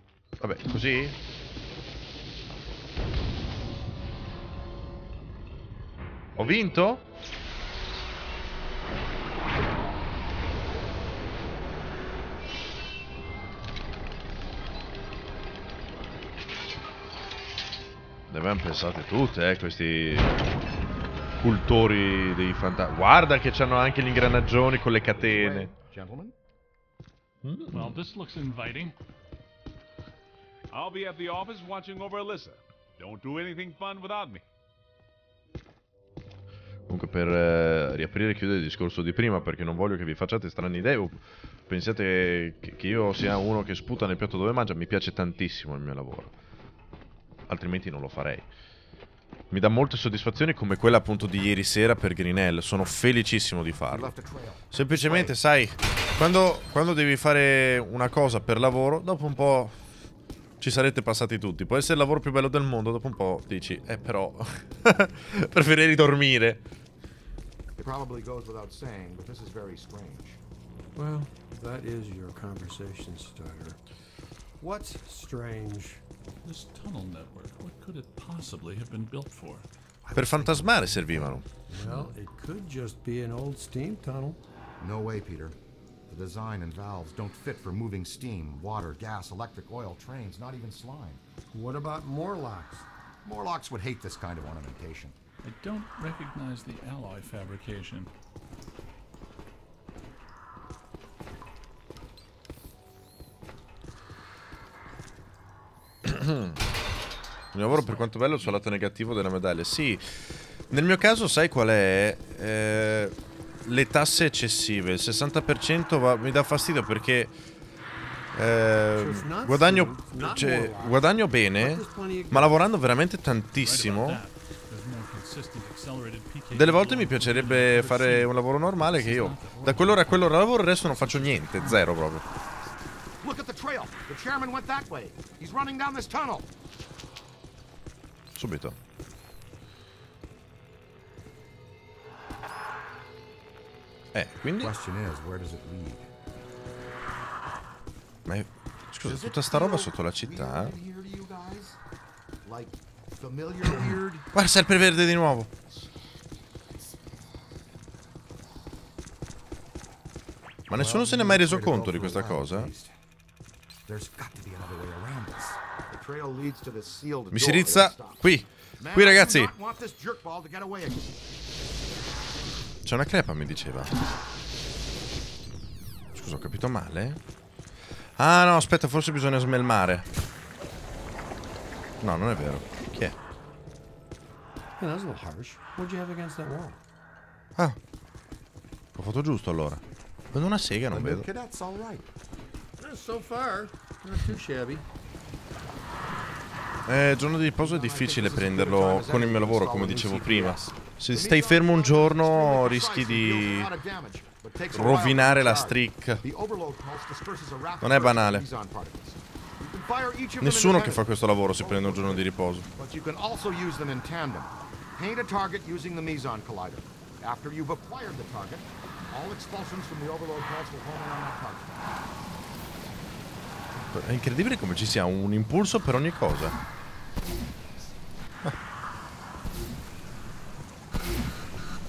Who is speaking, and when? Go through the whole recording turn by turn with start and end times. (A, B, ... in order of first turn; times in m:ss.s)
0:00.4-0:01.2 A
0:06.4-0:07.0 A
0:18.3-0:20.4 A
0:21.4-0:25.7 A
0:25.2-0:26.4 B
0:27.4-0:28.0 A
0:27.7-0:29.0 C
0:30.7-0:34.4 D
0:36.9-0:46.3 A
0:47.5-0:48.5 A
0:49.5-0:54.1 A
0:53.9-0:55.4 B
0:54.7-0:59.7 A
1:00.6-1:06.6 A
1:07.8-1:10.4 B
1:11.0-1:13.8 E
1:14.6-1:16.0 E
1:16.4-1:19.7 C
1:20.1-1:21.4 B
1:20.1-1:21.5 A
1:21.7-1:24.4 E
1:24.8-1:25.6 B
1:26.1-1:31.2 B
1:31.5-1:32.9 E
1:33.2-1:35.2 B
1:35.4-1:38.1 C
1:46.0-1:46.6 A
1:47.5-1:50.0 A
1:50.7-1:53.1 A
1:53.7-1:57.3 A
1:58.3-2:04.2 A
1:59.0-2:02.6 E
2:03.6-2:11.4 C
2:06.5-2:12.2 A
2:13.2-2:16.5 B
2:18.4-2:18.8 A
2:24.1-2:24.7 A
2:24.6-2:26.1 B
2:28.3-2:30.7 A
2:29.0-2:31.8 B
2:32.4-2:34.3 B
2:34.3-2:35.5 A
2:40.7-2:42.9 B
2:40.7-2:42.7 A
2:43.9-2:48.2 B
2:47.3-2:49.5 A
2:48.8-2:51.0 B
2:52.8-2:53.9 A
2:56.1-2:57.2 A
2:58.2-3:00.0 A
3:02.0-3:03.2 A
3:04.8-3:06.8 E
3:09.0-3:09.8 A
3:10.3-3:11.3 A
3:10.9-3:12.1 B
3:12.8-3:14.9 E
3:16.9-3:23.7 A
3:17.6-3:41.9 B
3:24.7-3:26.2 A
3:27.8-3:28.5 A
3:30.4-3:32.7 A
3:43.9-3:46.6 A